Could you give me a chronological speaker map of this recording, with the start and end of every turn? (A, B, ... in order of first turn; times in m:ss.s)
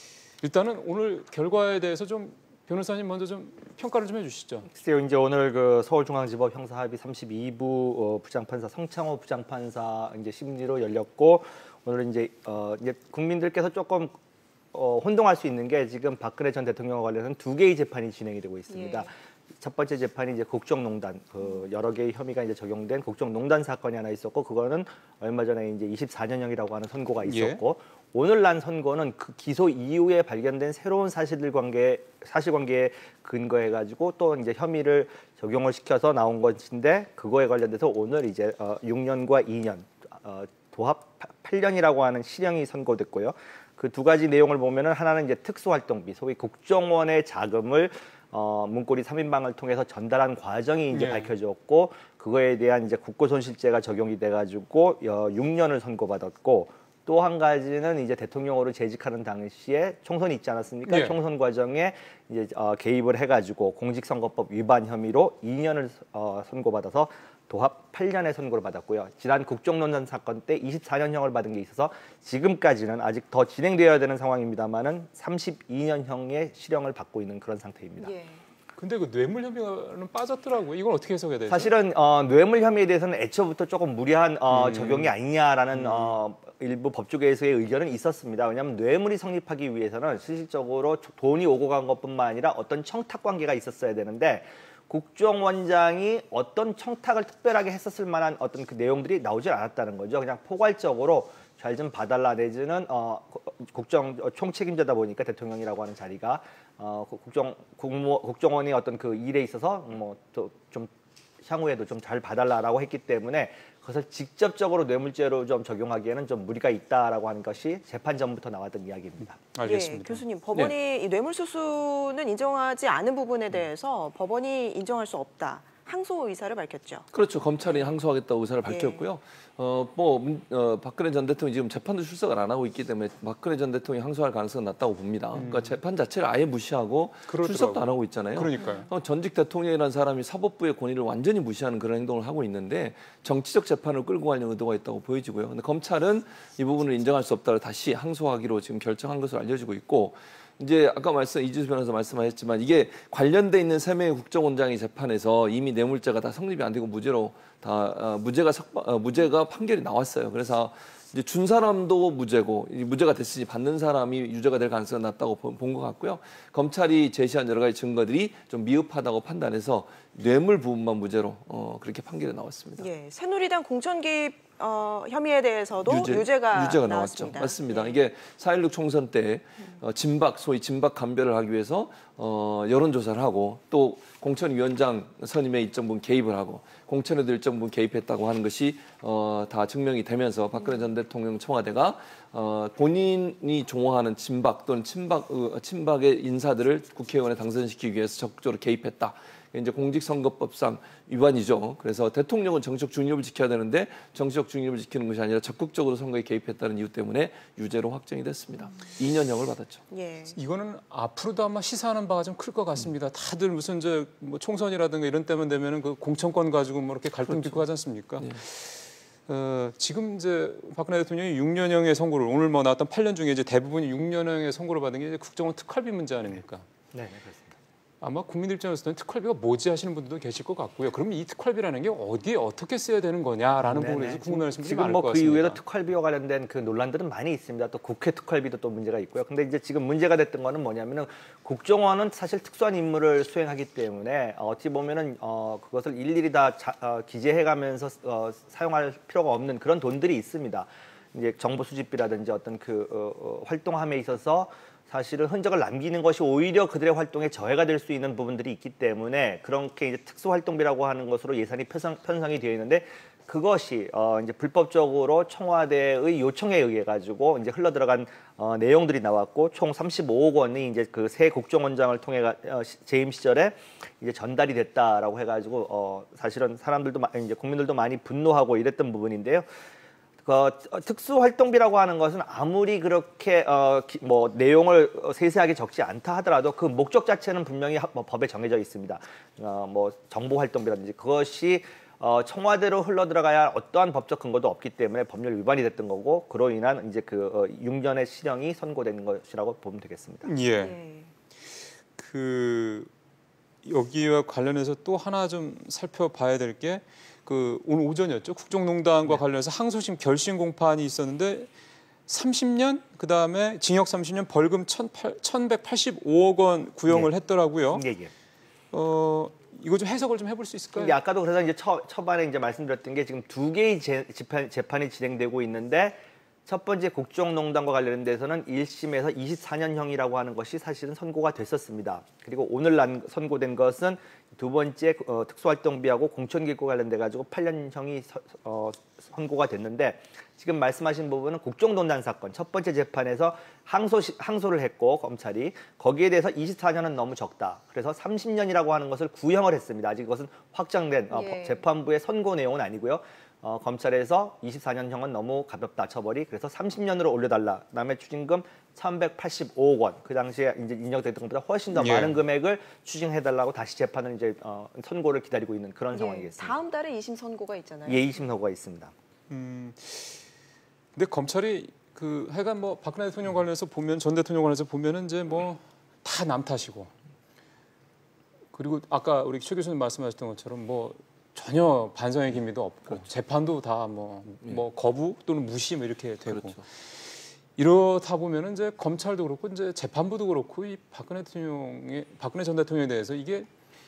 0:00.4-0:04.7 A
0:04.7-0:14.2 B
0:14.7-1:18.1 B
0:18.7-0:19.1 C
0:27.2-0:27.6 A
0:50.9-0:51.3 A
1:00.8-1:01.2 A
1:18.0-1:18.4 C
1:18.8-1:21.7 A
1:21.5-1:50.9 B
1:24.5-1:25.1 A
1:25.8-1:26.1 A
1:51.4-1:59.4 B
1:59.5-2:00.2 A
1:59.6-2:07.0 C
2:07.1-2:52.9 D
2:08.6-2:09.0 C
2:15.3-2:15.8 A
2:17.3-2:18.9 A
2:52.8-2:58.0 C
2:55.8-3:29.8 D
3:29.9-3:30.4 C
3:30.3-3:46.7 A
3:37.2-3:37.6 D
3:46.9-3:47.5 B
3:48.0-3:55.6 A
3:53.6-4:39.5 B
4:40.2-5:00.3 B
5:00.2-5:00.8 A
5:00.6-5:01.1 C
5:02.0-5:02.9 A
5:03.6-5:11.5 A
5:12.1-5:17.8 A
5:17.7-5:18.1 B
5:18.7-5:21.0 A
5:20.8-6:06.6 B
5:51.1-5:51.6 C
6:01.7-6:02.2 A
6:05.9-6:08.1 C
6:07.9-6:08.9 B
6:09.3-6:10.2 A
6:11.0-6:16.9 A
6:18.5-6:33.5 A
6:26.2-6:26.6 D